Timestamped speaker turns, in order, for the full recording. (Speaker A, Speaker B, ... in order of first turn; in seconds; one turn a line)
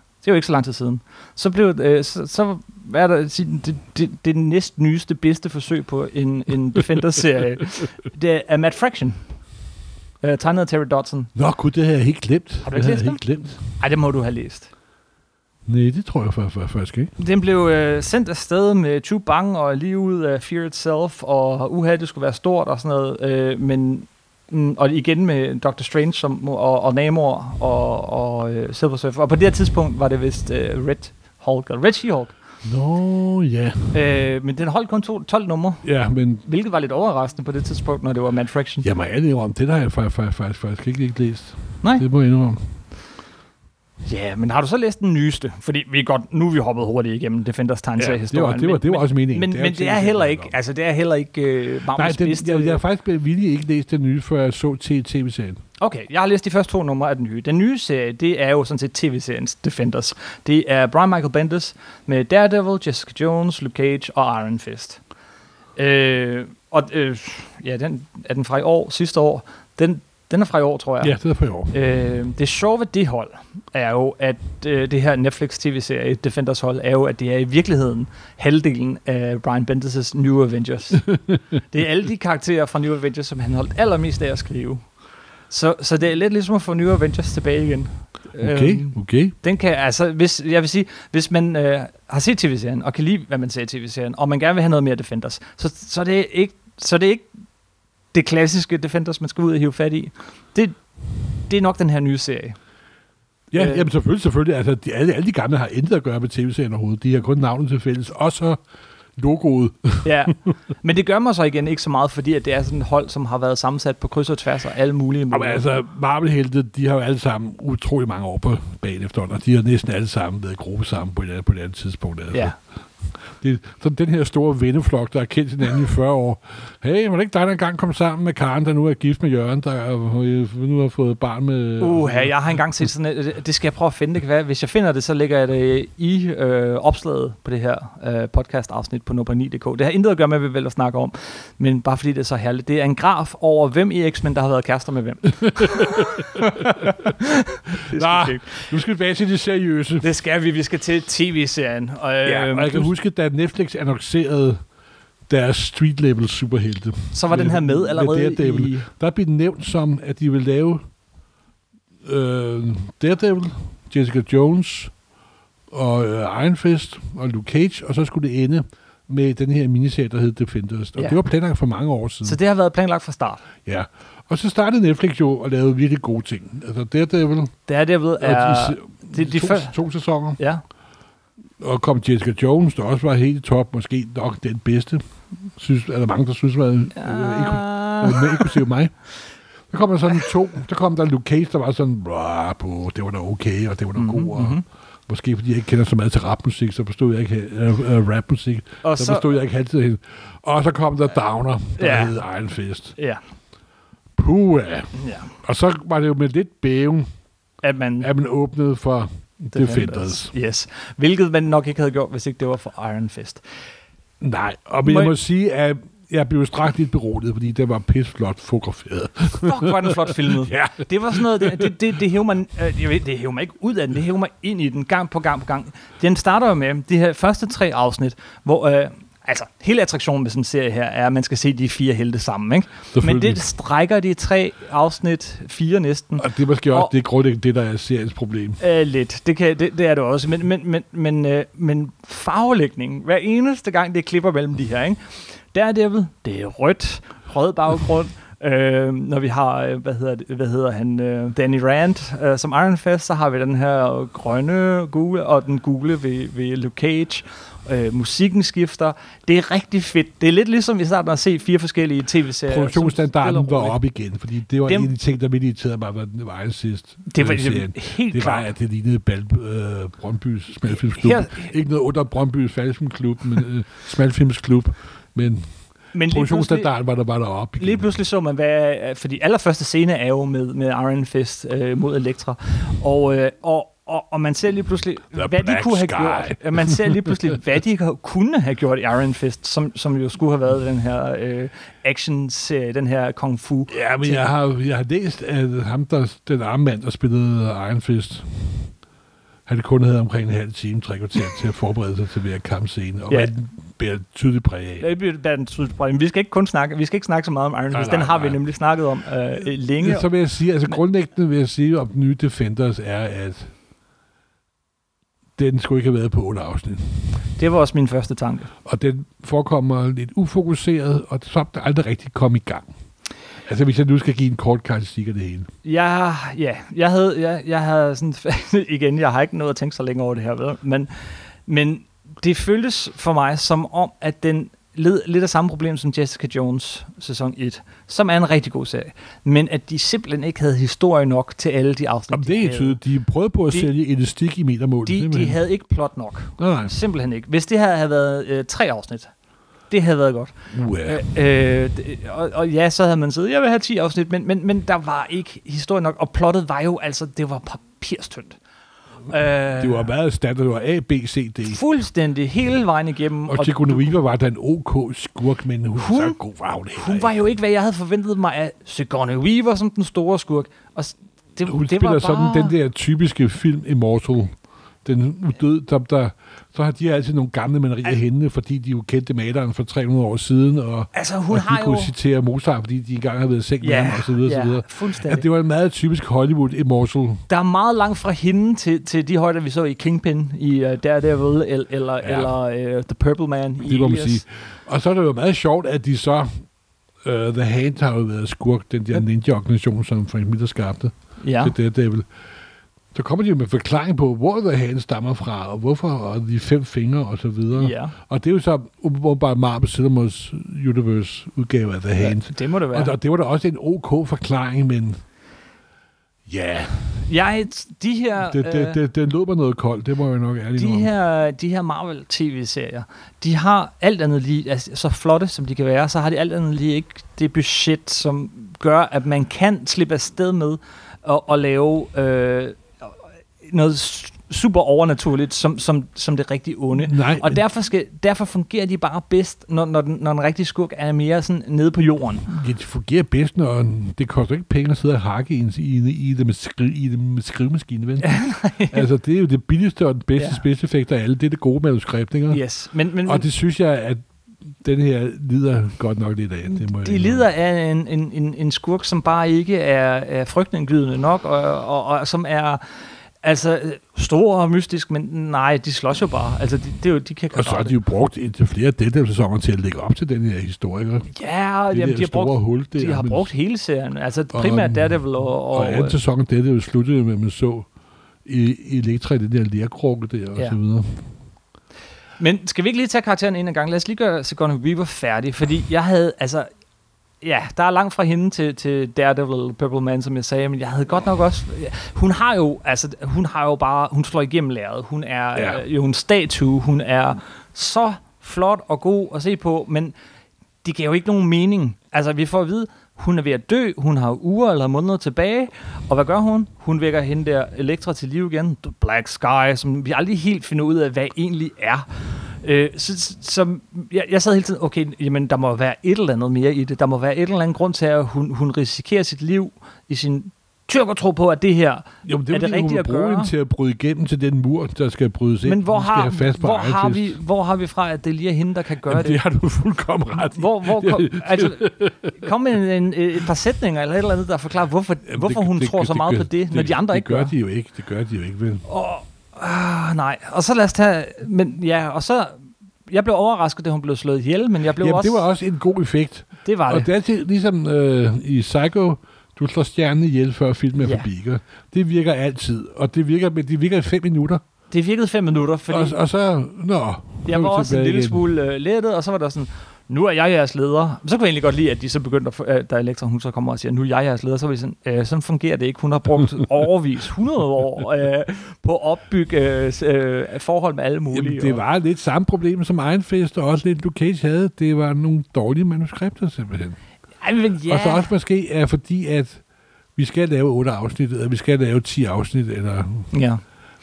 Speaker A: 0.2-9.2
Speaker A: 10.2-11.3
Speaker B: 11.3-13.6
Speaker A: 12.6-13.2
Speaker A: 13.8-14.7
Speaker B: 15.7-17.1
Speaker A: 17.2-32.4
Speaker B: 32.6-34.0
Speaker A: 33.9-35.9
Speaker B: 35.8-36.5
Speaker A: 36.5-38.9
Speaker B: 38.8-42.7
Speaker A: 44.1-52.8
Speaker B: 48.0-50.5
Speaker B: 52.0-55.6
Speaker A: 55.8-65.0
Speaker A: 65.8-71.2
Speaker B: 71.0-71.7
Speaker A: 71.7-81.1
Speaker B: 81.1-81.4
Speaker A: 81.7-84.8
Speaker A: 85.5-97.3
Speaker B: 88.4-89.3
Speaker A: 98.1-100.8
Speaker A: 101.5-102.6
Speaker B: 103.5-108.6
Speaker A: 103.6-103.9
Speaker B: 109.2-110.1
Speaker A: 110.0-115.7
Speaker B: 115.3-122.5
Speaker B: 123.3-132.4
Speaker A: 131.8-148.7
Speaker B: 145.6-146.5
Speaker B: 147.9-150.1
Speaker A: 150.0-152.9
Speaker B: 152.2-154.6
Speaker B: 155.3-160.8
Speaker A: 157.1-158.9
Speaker B: 162.1-164.9
Speaker B: 165.7-172.4
Speaker A: 172.2-173.4
Speaker B: 173.7-177.6
Speaker A: 177.7-179.8
Speaker B: 178.2-180.4
Speaker A: 180.4-180.6
Speaker B: 181.6-185.0
Speaker B: 185.6-188.9
Speaker A: 186.9-188.6
Speaker B: 189.7-203.0
Speaker A: 194.0-194.6
Speaker A: 198.8-199.3
Speaker A: 201.8-202.2
Speaker B: 204.2-207.1
Speaker A: 205.0-205.3
Speaker A: 207.6-208.1
Speaker B: 208.0-210.3
Speaker A: 209.5-213.4
Speaker B: 214.2-221.8
Speaker A: 214.8-215.1
Speaker A: 219.4-236.9
Speaker B: 232.9-233.4
Speaker B: 236.2-238.6
Speaker A: 238.6-263.8
Speaker B: 262.5-275.5
Speaker A: 264.7-264.9
Speaker A: 267.1-268.5
Speaker A: 270.7-271.5
Speaker A: 275.9-276.7
Speaker B: 276.1-277.9
Speaker A: 277.6-294.3
Speaker B: 285.1-287.2
Speaker B: 293.7-298.7
Speaker B: 299.5-304.9
Speaker A: 304.8-310.1
Speaker B: 307.7-308.4
Speaker B: 309.8-313.5
Speaker B: 315.4-317.1
Speaker A: 317.4-318.5
Speaker B: 318.6-322.7
Speaker B: 323.4-325.5
Speaker A: 325.6-330.9
Speaker A: 331.5-342.8
Speaker B: 342.1-345.4
Speaker A: 344.9-349.1
Speaker B: 346.4-346.7
Speaker A: 349.7-350.3
Speaker B: 350.5-351.0
Speaker A: 350.9-358.4
Speaker A: 359.1-359.9
Speaker B: 359.6-361.6
Speaker A: 361.5-364.0
Speaker B: 363.3-367.1
Speaker A: 365.8-366.2
Speaker A: 366.7-372.6
Speaker B: 371.5-374.3
Speaker B: 374.9-387.2
Speaker A: 380.9-381.9
Speaker A: 383.6-385.2
Speaker A: 387.3-394.2
Speaker B: 392.0-392.3
Speaker B: 393.6-396.3
Speaker B: 397.0-402.1
Speaker A: 401.2-401.5
Speaker B: 402.9-415.0
Speaker A: 407.6-407.9
Speaker A: 412.0-412.9
Speaker B: 416.3-416.8
Speaker A: 417.1-418.8
Speaker B: 418.2-420.9
Speaker A: 420.6-432.9
Speaker A: 433.4-442.3
Speaker B: 436.8-437.4
Speaker B: 442.3-448.1
Speaker A: 448.0-448.9
Speaker B: 448.7-452.4
Speaker A: 450.2-450.4
Speaker A: 452.3-453.3
Speaker B: 453.1-454.0
Speaker B: 454.6-457.3
Speaker A: 456.5-462.6
Speaker A: 463.2-467.8
Speaker B: 467.3-471.1
Speaker A: 471.1-476.0
Speaker B: 471.7-473.3
Speaker B: 474.3-477.7
Speaker B: 478.2-481.0
Speaker A: 482.2-486.5
Speaker A: 487.2-499.9
Speaker B: 495.4-495.6
Speaker A: 500.6-511.9
Speaker A: 512.4-523.3
Speaker B: 522.0-527.2
Speaker A: 525.5-529.2
Speaker B: 528.9-532.2
Speaker A: 530.1-537.3
Speaker B: 535.1-538.6
Speaker A: 538.7-542.4
Speaker A: 542.9-545.2
Speaker B: 544.8-554.4
Speaker A: 546.5-546.9
Speaker A: 550.8-551.1
Speaker A: 554.7-556.0
Speaker B: 555.7-558.2
Speaker A: 557.3-571.6
Speaker B: 571.1-576.8
Speaker A: 577.2-578.1
Speaker B: 577.7-579.4
Speaker B: 580.0-583.1
Speaker A: 583.1-583.4